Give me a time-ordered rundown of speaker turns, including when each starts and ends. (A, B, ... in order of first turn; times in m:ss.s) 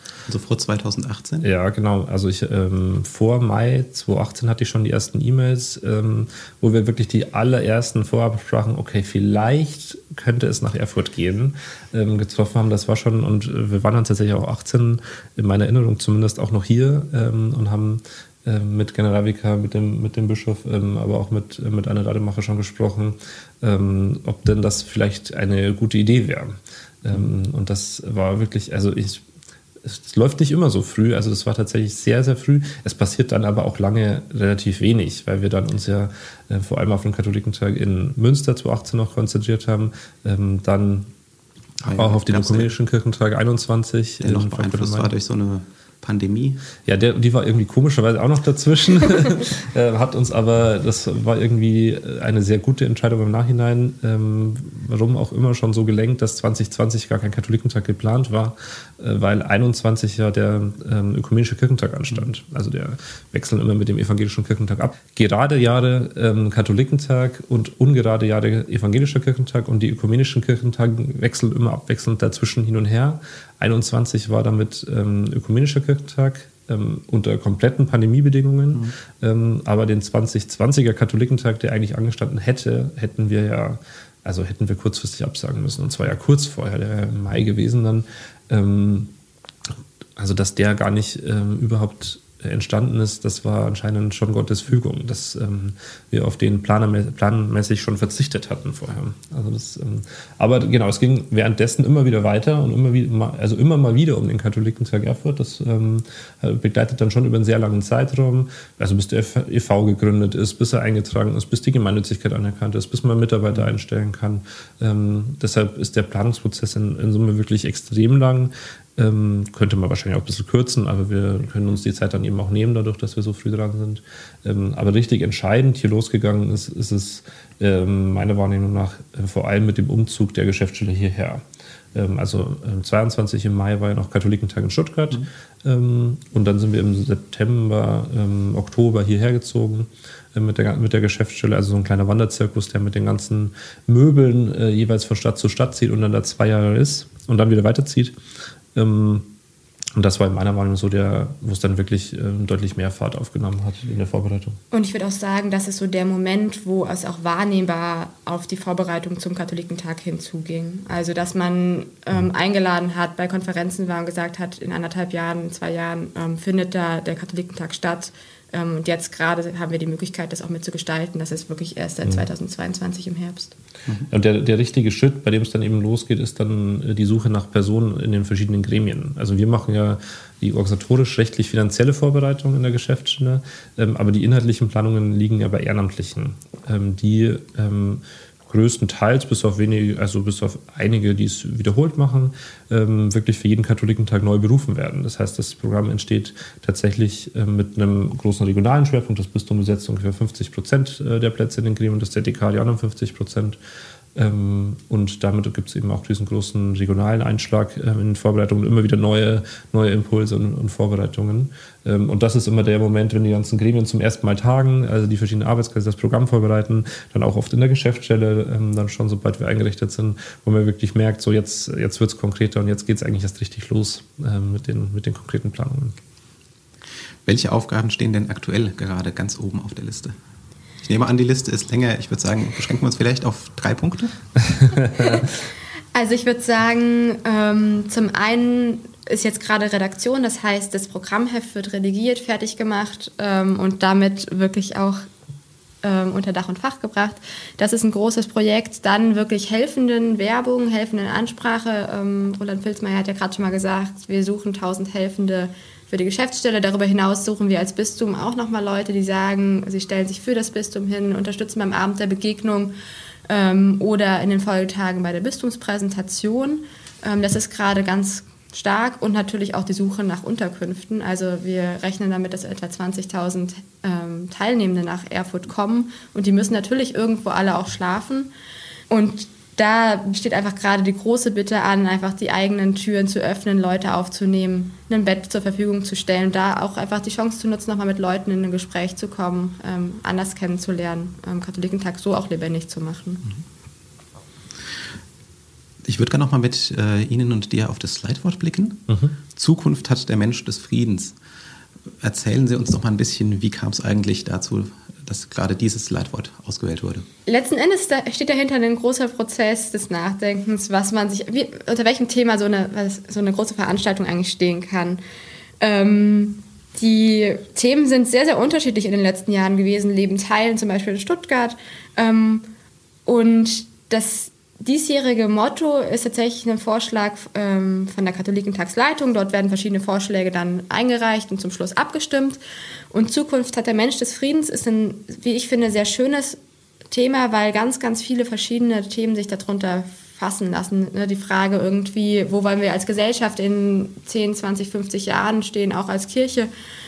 0:00.3-0:01.5 A
0:01.4-0:29.2 B
0:29.8-0:41.1 B
0:41.8-0:42.7 A
0:41.9-0:45.1 B
0:44.2-0:46.6 A
0:46.9-1:29.1 B
1:30.2-2:28.2 B
2:28.7-2:29.3 B
2:30.0-2:34.6 B
2:34.7-2:53.6 C
2:54.1-3:23.6 B
3:24.2-3:46.0 B
3:47.3-3:50.2 A
3:50.8-3:54.2 A
3:55.9-4:05.1 C
4:05.8-4:22.7 C
4:23.3-4:38.3 C
4:38.9-4:53.2 C
4:55.8-5:01.2 A
4:58.9-4:59.2 B
5:02.0-5:07.1 A
5:07.3-5:15.0 C
5:15.6-5:22.5 C
5:23.1-5:32.4 C
5:32.9-5:36.4 C
5:36.9-5:46.5 C